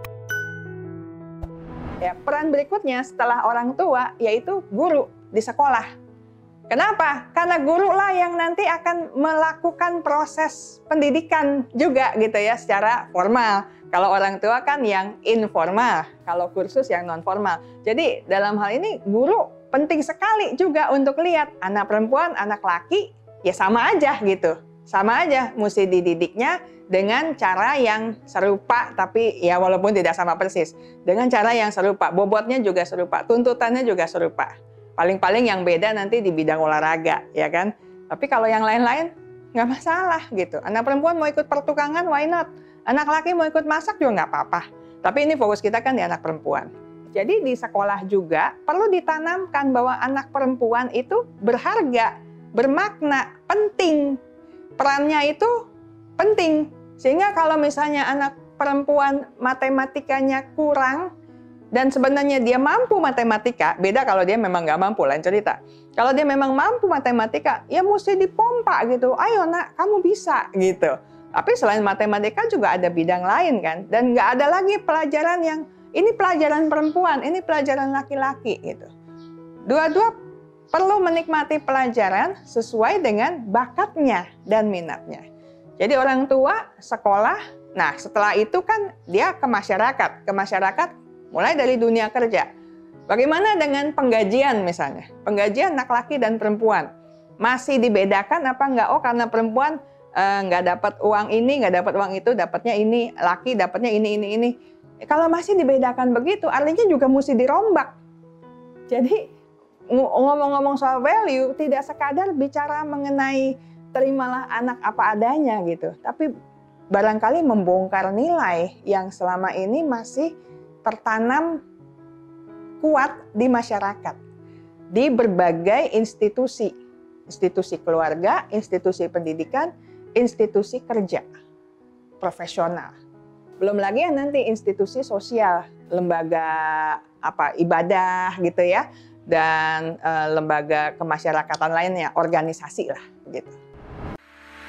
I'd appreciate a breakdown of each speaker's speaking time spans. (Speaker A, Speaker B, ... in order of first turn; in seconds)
Speaker A: 2.0-5.9, 6.7-54.2, 54.8-55.6, 56.2-61.1, 61.7-78.9, 79.7-80.2, 80.7-85.2, 85.8-92.5, 93.1-96.9, 97.4-104.5, 105.1-107.9, 108.9-109.2, 109.9-116.3, 116.9-120.3, 120.8-121.6, 122.8-124.2, 124.9-126.7, 127.3-131.3, 132.2-132.9, 133.6-143.6